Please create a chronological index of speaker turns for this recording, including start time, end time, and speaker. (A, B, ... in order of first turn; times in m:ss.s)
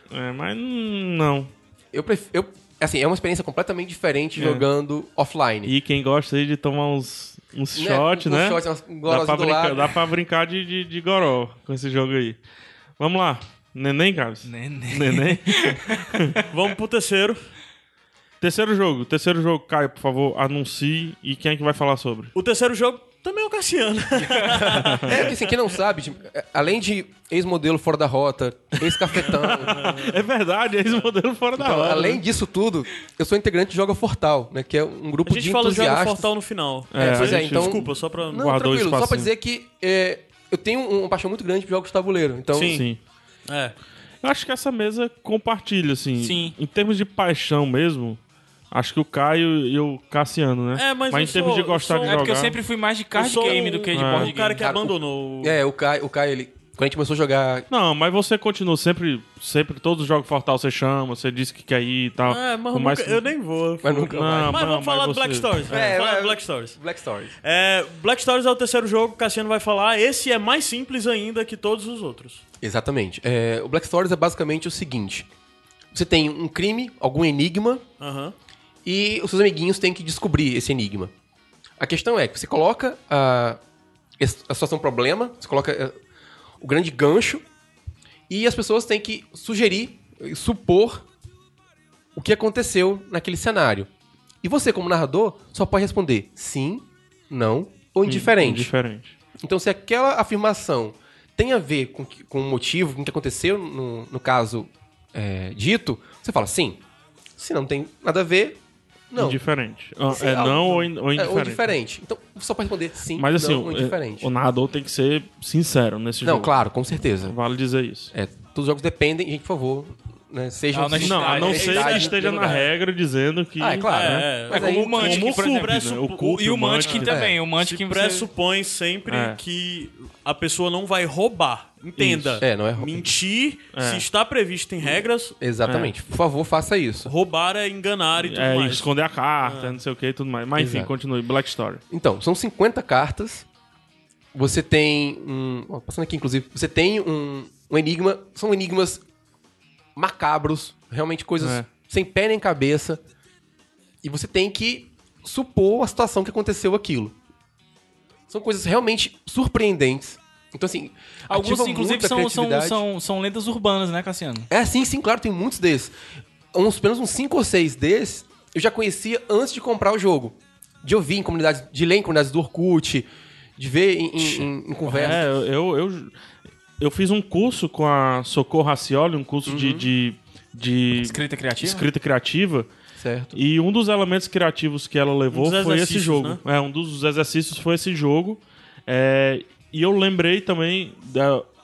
0:00.1-0:01.5 A
0:01.9-0:05.7 B
0:04.4-0:04.7 A
0:05.6-0:12.4 A
0:07.7-0:09.9 B
0:13.0-0:16.3 A
0:14.4-0:16.4 C
0:16.5-0:17.4 D
0:18.4-0:22.3 A
0:22.3-0:25.4 D
0:24.3-0:30.0 B
0:24.8-0:25.2 A
0:28.8-0:32.2 A
0:29.7-0:30.2 D
0:31.6-0:36.3 B
0:35.2-0:38.5 D
0:36.9-0:39.3 A
0:37.0-0:42.8 B
0:42.5-0:42.8 D
0:42.6-0:43.0 A
0:43.5-0:43.8 D
0:44.2-0:48.2 A
0:46.2-0:46.5 C
0:48.7-0:52.6 A
0:50.8-0:52.5 D
0:52.0-0:54.6 C
0:53.1-0:55.6 D
0:53.3-0:54.3 A
0:54.6-0:57.7 B
0:57.7-1:03.3 A
1:02.2-1:06.8 D
1:03.8-1:04.5 B
1:04.1-1:05.9 A
1:05.7-1:07.3 B
1:07.4-1:12.4 D
1:12.6-1:15.3 B
1:15.9-1:17.8 B
1:18.0-1:18.3 D
1:18.8-1:21.1 B
1:21.8-1:23.6 B
1:24.2-1:26.0 B
1:26.6-1:27.4 B
1:28.3-1:31.0 B
1:32.1-1:33.9 B
1:34.4-1:38.7 B
1:38.0-1:39.2 A
1:39.4-1:46.8 B
1:47.4-1:48.6 B
1:49.1-1:49.4 B
1:49.2-1:51.7 A
1:50.1-1:54.3 B
1:53.1-1:56.5 A
1:56.2-1:57.3 B
1:57.2-1:58.1 A
1:58.1-2:02.6 B
2:00.7-2:02.1 C
2:01.0-2:07.3 A
2:02.1-2:02.6 D
2:03.6-2:05.2 B
2:03.9-2:06.3 D
2:04.5-2:08.3 C
2:07.0-2:07.4 B
2:07.6-2:15.4 D
2:09.1-2:09.4 A
2:12.0-2:12.4 A
2:12.4-2:13.1 B
2:13.7-2:14.0 A
2:14.8-2:17.1 B
2:15.6-2:15.9 A
2:17.0-2:18.9 D
2:18.2-2:21.8 A
2:19.4-2:19.8 D
2:20.6-2:20.9 B
2:21.9-2:23.5 B
2:24.3-2:29.0 B
2:30.0-2:33.0 B
2:31.4-2:31.7 A
2:34.0-2:37.1 B
2:38.3-2:42.8 B
2:41.3-2:44.5 C
2:44.5-2:45.9 B
2:46.5-2:55.2 B
2:54.9-2:56.1 A
2:56.8-3:02.7 A
2:59.4-2:59.9 B
3:00.9-3:01.8 C
3:03.0-3:03.3 B
3:03.3-3:11.5 A
3:05.3-3:06.4 D